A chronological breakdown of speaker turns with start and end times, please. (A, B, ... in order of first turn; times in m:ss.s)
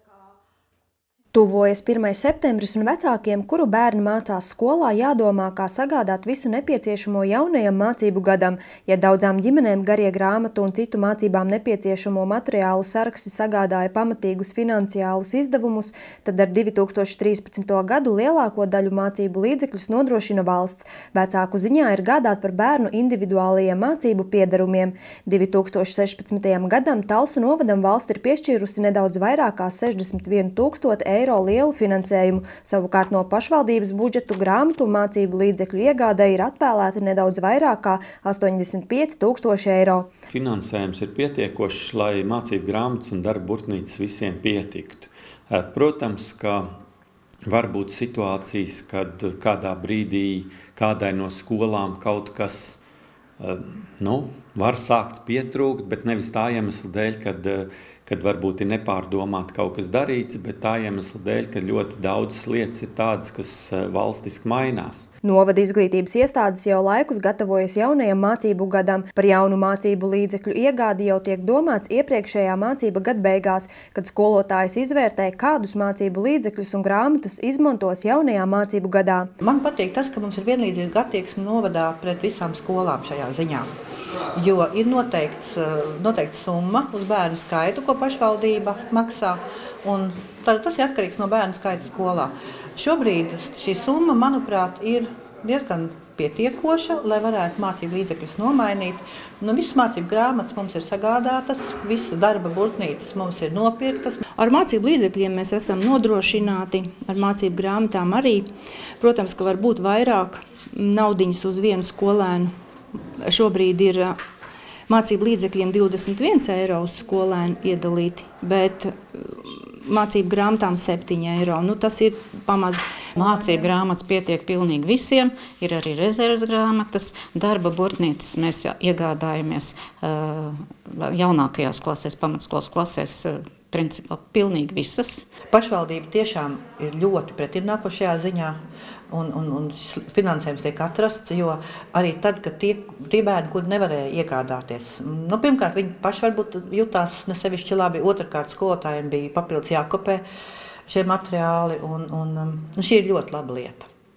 0:01.3-0:40.1 A
0:40.3-0:46.7 B
0:47.5-0:52.8 B
0:53.4-1:05.1 B
1:05.2-1:19.3 A
1:19.4-1:23.7 C
1:24.4-1:44.2 C
1:44.4-1:48.5 D
1:49.0-1:52.5 D
1:53.2-1:54.2 D
1:54.9-2:03.7 D
2:03.2-2:15.3 E
2:15.5-2:18.6 C
2:19.1-2:30.2 C
2:30.9-2:33.9 C